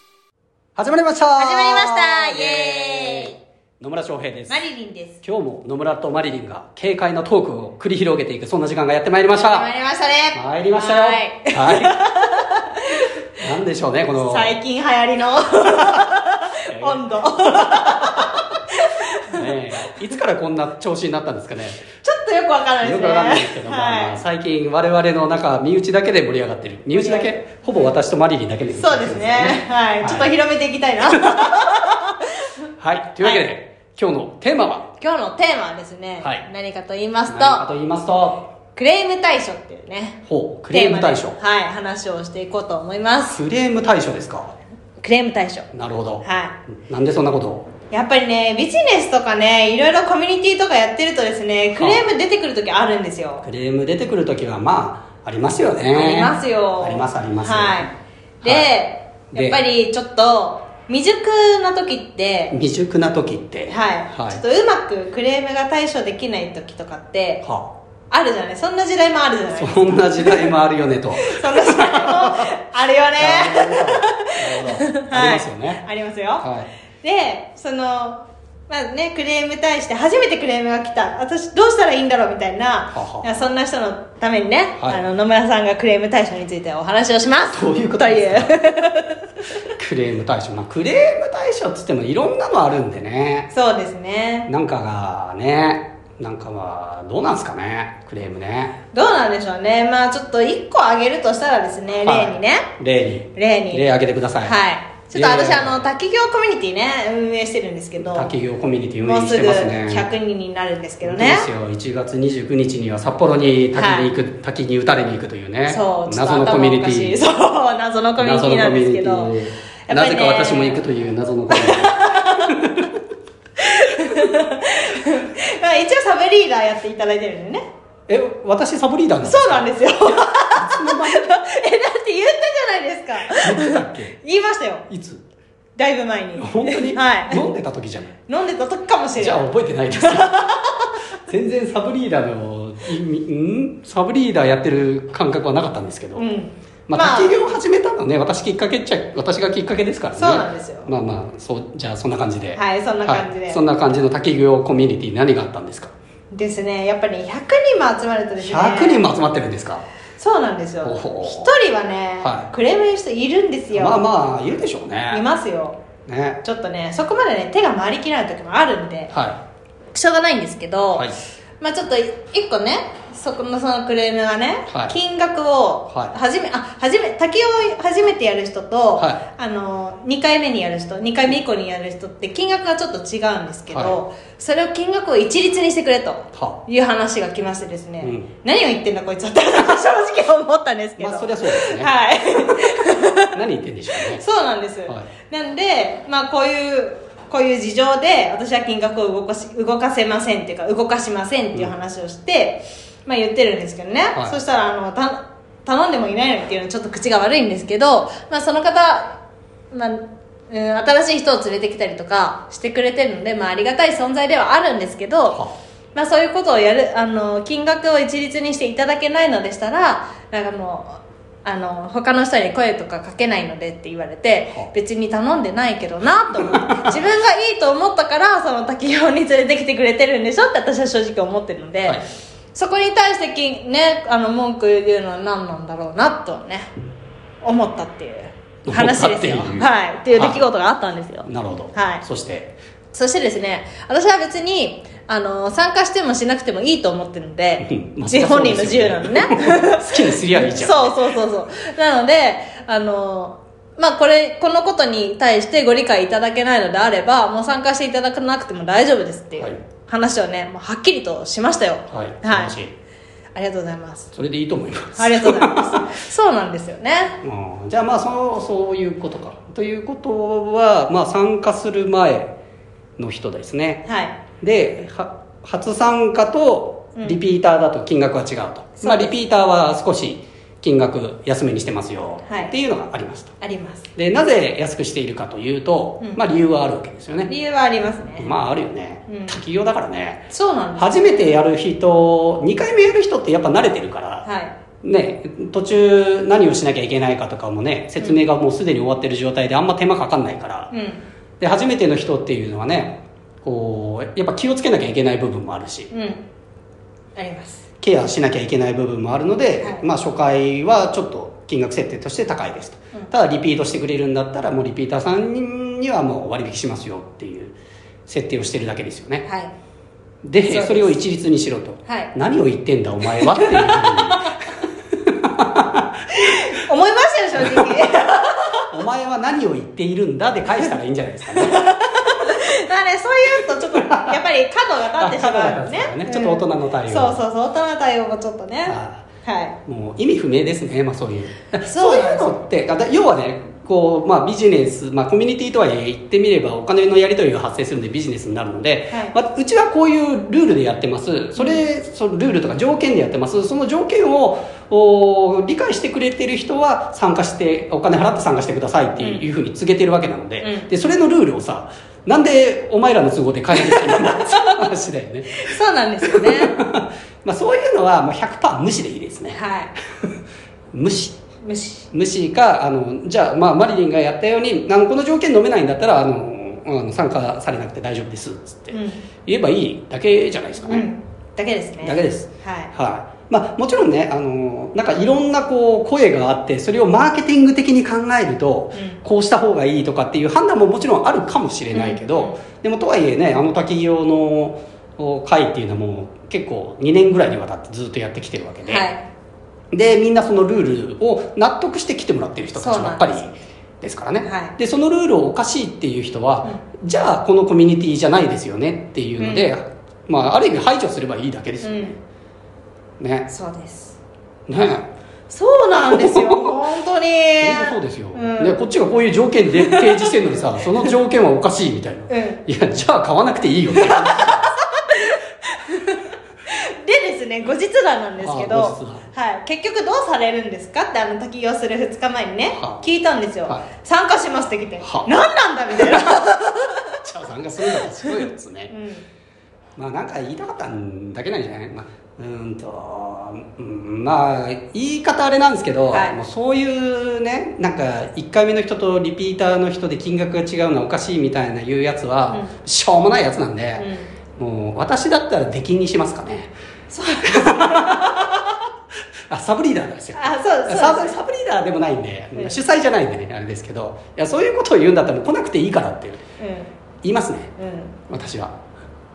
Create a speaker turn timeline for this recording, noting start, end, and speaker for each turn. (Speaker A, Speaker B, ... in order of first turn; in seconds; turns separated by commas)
Speaker A: 0.8-4.6, Speaker B: 1.4-3.4, Speaker B: 4.5-5.2, Speaker A: 5.2-9.7, Speaker B: 9.4-13.1, Speaker A: 10.3-12.0, Speaker A: 13.4-14.5, Speaker B: 14.2-19.9, Speaker A: 16.7-18.4, Speaker A: 19.3-21.9, Speaker B: 22.0-24.2, Speaker A: 22.8-30.3, Speaker B: 26.9-27.9, Speaker B: 28.8-32.3, Speaker A: 31.1-31.6, Speaker A: 32.8-34.9, Speaker B: 35.0-37.7, Speaker A: 37.3-38.5, Speaker B: 38.7-40.2, Speaker A: 40.3-41.4, Speaker B: 40.7-43.4, Speaker A: 43.3-44.5, Speaker B: 45.0-45.7, Speaker A: 45.7-47.7, Speaker B: 46.2-46.5, Speaker B: 47.9-53.4, Speaker A: 51.8-52.0, Speaker A: 53.4-57.9, Speaker B: 55.9-57.9, Speaker A: 58.4-58.7, Speaker B: 58.4-62.5, Speaker A: 59.3-59.6, Speaker A: 62.5-64.4, Speaker B: 63.7-67.4, Speaker A: 67.4-67.7, Speaker B: 68.1-70.5, Speaker A: 69.5-72.5, Speaker B: 71.2-76.5, Speaker A: 73.2-75.8, Speaker A: 76.4-76.7, Speaker B: 77.0-89.2, Speaker A: 82.9-83.4, Speaker A: 87.5-88.6, Speaker A: 89.8-93.5, Speaker B: 93.5-94.5, Speaker A: 94.5-98.7, Speaker B: 98.9-102.7, Speaker A: 102.0-104.5, Speaker B: 103.3-103.8, Speaker B: 104.4-108.3, Speaker A: 105.1-105.9, Speaker A: 108.0-110.1, Speaker B: 109.0-111.5, Speaker A: 111.0-117.2, Speaker B: 113.8-114.1, Speaker B: 115.7-119.3, Speaker A: 118.2-123.0, Speaker B: 119.9-120.8, Speaker B: 121.5-122.5, Speaker B: 123.6-127.6, Speaker A: 128.1-131.3, Speaker B: 129.2-134.8, Speaker A: 133.3-134.2, Speaker A: 134.9-135.2, Speaker B: 135.8-137.4, Speaker A: 136.4-138.2, Speaker B: 138.3-140.9, Speaker A: 139.2-140.4, Speaker A: 141.3-146.2, Speaker B: 146.2-147.4, Speaker A: 146.9-155.9, Speaker B: 150.2-150.9, Speaker B: 152.5-153.6, Speaker B: 156.3-159.1, Speaker A: 158.4-159.8, Speaker B: 160.2-164.0, Speaker A: 160.8-161.5, Speaker A: 162.2-162.5, Speaker A: 163.7-165.2, Speaker B: 165.1-165.8, Speaker A: 166.1-166.4, Speaker B: 166.4-169.1, Speaker A: 169.1-169.4, Speaker B: 169.9-193.3, Speaker A: 170.9-171.2, Speaker A: 174.7-175.0, Speaker A: 175.9-176.1, Speaker A: 179.0-179.2, Speaker A: 183.7-184.0, Speaker A: 186.3-186.6, Speaker A: 188.0-188.3, Speaker A: 191.0-191.9, Speaker A: 193.2-194.2, Speaker B: 194.0-209.2, Speaker B: 209.7-215.4, Speaker B: 215.9-232.0, Speaker B: 232.5-236.7, Speaker B: 237.4-242.0, Speaker A: 238.7-240.4, Speaker A: 241.2-242.6, Speaker B: 242.9-262.6, Speaker A: 247.6-251.0, Speaker A: 261.9-262.7, Speaker B: 263.3-264.1, Speaker A: 264.1-265.8, Speaker B: 264.9-267.2, Speaker A: 267.2-272.3, Speaker A: 273.0-273.8, Speaker B: 273.8-274.2, Speaker A: 274.4-283.3, Speaker B: 278.8-279.1, Speaker B: 282.3-282.5, Speaker B: 283.4-283.9, Speaker A: 283.9-287.3, Speaker B: 287.3-288.3, Speaker A: 288.2-294.3, Speaker B: 289.1-289.4, Speaker B: 290.3-291.4, Speaker B: 294.2-294.5, Speaker A: 294.8-300.7, Speaker B: 300.7-301.0, Speaker A: 301.4-305.9, Speaker B: 305.9-306.2, Speaker B: 307.1-307.6, Speaker A: 307.8-317.6, Speaker B: 309.6-309.8, Speaker A: 318.1-319.2, Speaker B: 319.2-319.5, Speaker A: 320.2-324.3, Speaker B: 320.4-321.0, Speaker B: 321.9-322.1, Speaker B: 323.1-324.2, Speaker A: 325.0-325.8, Speaker B: 326.1-328.6, Speaker A: 328.7-331.7, Speaker B: 331.3-339.6, Speaker A: 333.7-334.1, Speaker A: 335.0-337.2, Speaker A: 338.6-339.0, Speaker A: 339.6-365.5, Speaker B: 341.6-342.4, Speaker B: 351.4-351.6, Speaker B: 359.0-359.2, Speaker B: 360.4-360.7, Speaker B: 363.5-364.6, Speaker B: 365.3-366.5, Speaker A: 366.0-369.4, Speaker B: 369.3-369.7, Speaker A: 370.7-371.2, Speaker B: 371.4-371.9, Speaker A: 371.9-380.9, Speaker B: 378.7-379.0, Speaker B: 380.6-382.7, Speaker A: 381.8-398.9, Speaker B: 391.7-392.4, Speaker B: 398.6-399.0, Speaker A: 399.7-412.0, Speaker B: 402.6-403.2, Speaker B: 404.2-404.6, Speaker B: 409.2-409.5, Speaker B: 411.6-411.9, Speaker A: 413.0-413.3, Speaker B: 413.3-414.0, Speaker A: 414.5-414.9, Speaker B: 415.3-418.6, Speaker A: 415.7-416.6, Speaker A: 417.4-424.5, Speaker B: 419.5-420.1, Speaker B: 422.1-422.4, Speaker B: 423.7-437.0, Speaker A: 428.2-429.1, Speaker A: 432.5-432.8, Speaker A: 434.8-435.1, Speaker A: 435.8-438.7, Speaker B: 438.7-439.0, Speaker A: 439.8-456.5, Speaker B: 445.9-446.2, Speaker B: 453.8-454.1, Speaker B: 456.9-458.4, Speaker A: 457.2-458.4, Speaker A: 459.3-466.2, Speaker B: 460.1-461.1, Speaker B: 466.4-466.7, Speaker A: 467.0-467.5, Speaker B: 467.6-467.9, Speaker A: 468.1-468.5